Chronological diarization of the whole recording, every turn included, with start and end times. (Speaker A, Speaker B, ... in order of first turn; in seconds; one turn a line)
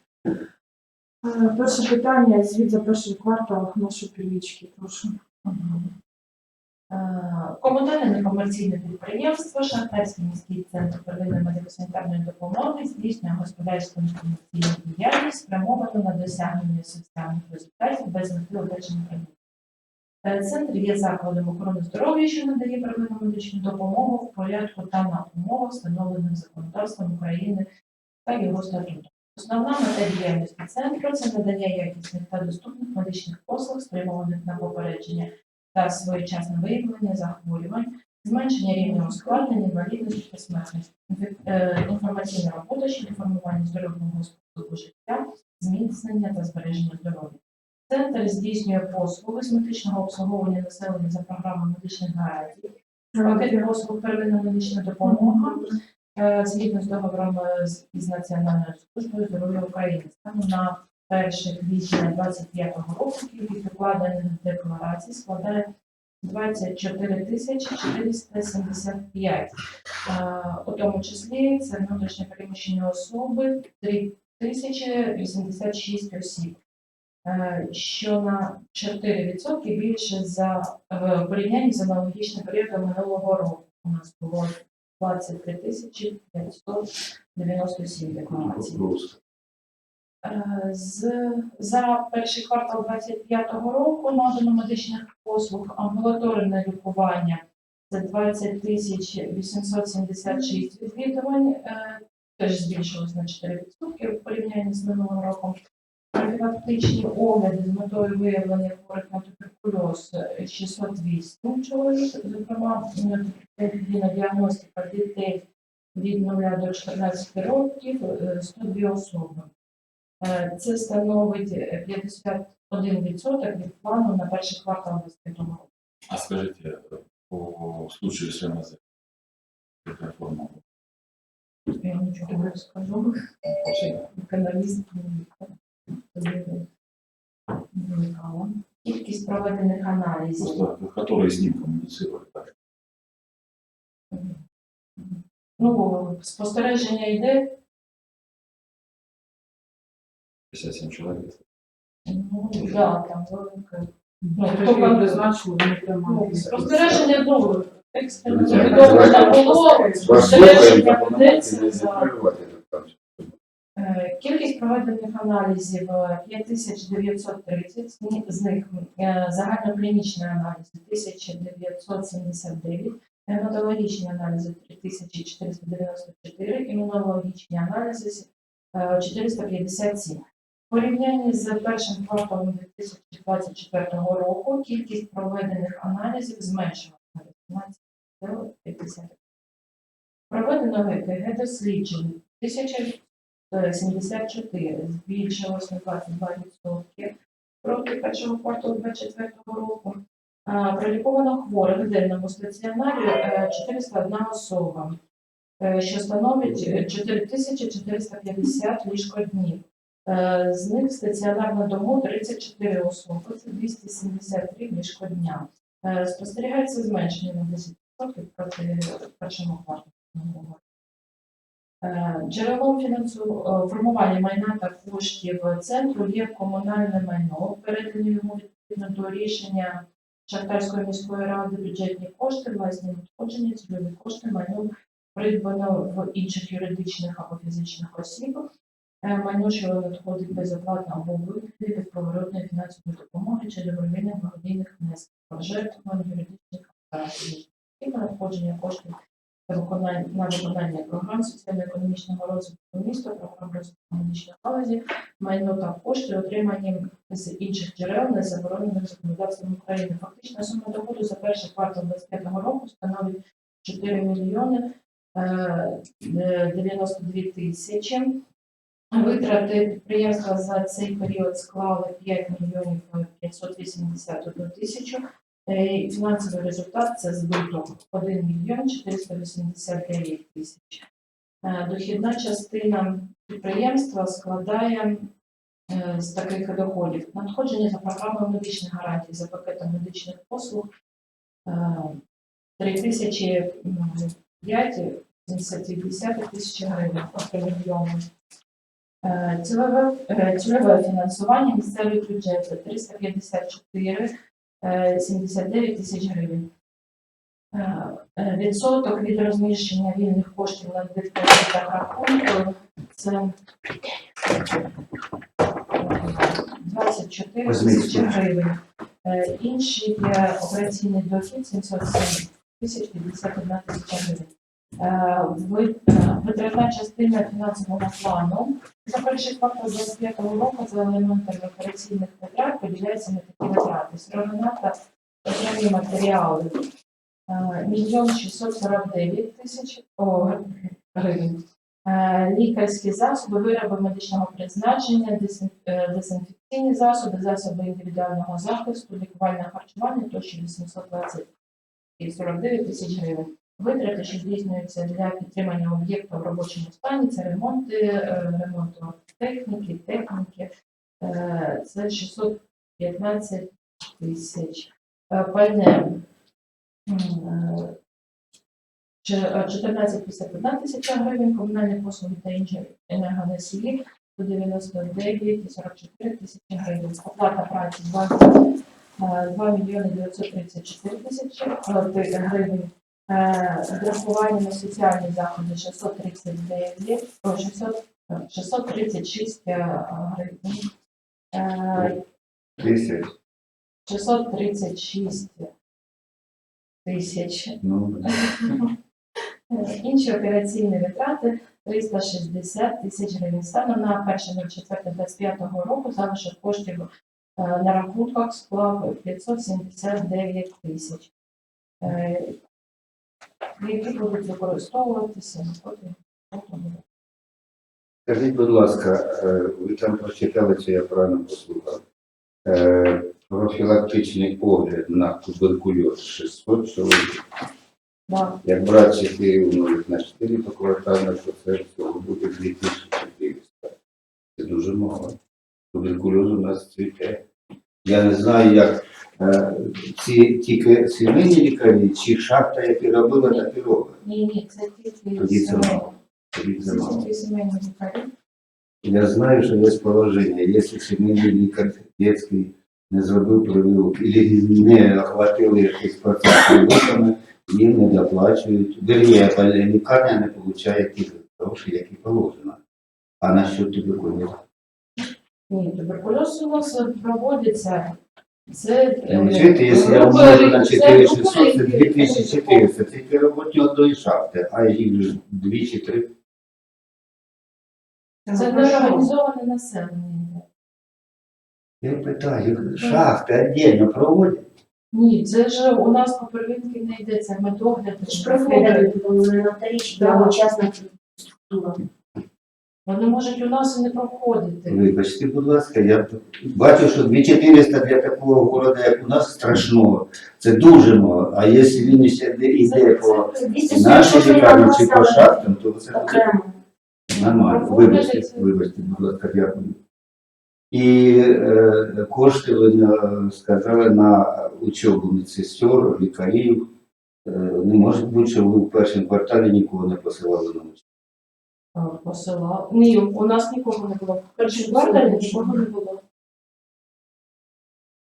Speaker A: 1.2-5.2
Speaker B: 5.4-5.9
Speaker B: 6.9-19.3
Speaker B: 20.2-27.7
Speaker B: 28.2-55.6
Speaker A: 38.8-39.4
Speaker A: 53.1-53.7
Speaker A: 55.0-55.7
Speaker B: 56.1-65.7
Speaker B: 66.2-76.6
Speaker B: 77.2-88.8
Speaker C: 88.3-89.2
Speaker B: 90.2-105.6
Speaker B: 106.1-115.4
Speaker B: 115.9-119.5
Speaker B: 120.2-125.7
Speaker D: 126.1-128.8
Speaker D: 129.8-130.6
Speaker B: 131.8-133.2
Speaker D: 133.6-134.1
Speaker B: 134.1-135.6
Speaker B: 136.1-136.7
Speaker B: 137.7-140.7
Speaker D: 140.4-142.5
Speaker B: 144.1-144.4
Speaker B: 145.0-147.5
Speaker D: 150.5-151.4
Speaker B: 152.1-155.3
Speaker A: 154.2-157.0
Speaker B: 156.0-162.1
Speaker C: 156.5-157.0
Speaker C: 158.3-163.3
Speaker A: 158.5-160.7
Speaker B: 163.8-189.2
Speaker B: 190.3-205.0
Speaker B: 205.6-220.6
Speaker B: 221.8-238.4
Speaker B: 239.0-248.9
Speaker B: 249.5-268.2
Speaker B: 268.9-280.9
Speaker B: 281.4-285.1
Speaker B: 285.7-290.7
Speaker B: 291.4-292.0
Speaker B: 292.6-298.1
Speaker B: 299.0-304.1
Speaker B: 304.6-306.5
Speaker B: 307.5-313.4
Speaker B: 315.8-336.6
Speaker C: 317.4-318.2
Speaker B: 337.3-351.3
Speaker B: 352.0-360.5
Speaker B: 361.0-366.0
Speaker B: 366.9-367.8
Speaker B: 369.0-378.4
Speaker B: 379.0-390.7
Speaker B: 391.3-392.0
Speaker C: 392.6-393.1
Speaker B: 393.9-395.5
Speaker B: 396.8-398.7
Speaker C: 397.6-398.1
Speaker B: 399.5-411.1
Speaker B: 411.8-412.4
Speaker B: 413.6-416.8
Speaker C: 418.1-421.8
Speaker C: 422.4-427.2
Speaker B: 428.1-428.4
Speaker C: 428.4-433.7
Speaker C: 434.4-435.2
Speaker C: 435.7-437.2
Speaker C: 437.8-444.0
Speaker B: 443.2-443.5
Speaker B: 444.0-445.9
Speaker C: 445.2-447.1
Speaker B: 446.6-448.1
Speaker C: 448.8-462.6
Speaker C: 463.2-464.4
Speaker B: 465.5-472.7
Speaker C: 469.1-476.1
Speaker A: 478.2-479.1
Speaker B: 478.3-480.4
Speaker C: 481.8-484.4
Speaker B: 482.8-483.1
Speaker B: 484.9-488.9
Speaker E: 488.0-491.8
Speaker B: 489.9-490.4
Speaker B: 492.9-494.9
Speaker C: 494.7-506.2
Speaker E: 502.6-505.4
Speaker E: 505.9-506.5
Speaker C: 507.1-509.8
Speaker B: 507.1-508.9
Speaker C: 510.7-516.7
Speaker C: 517.2-520.8
Speaker B: 521.8-526.0
Speaker E: 524.5-525.6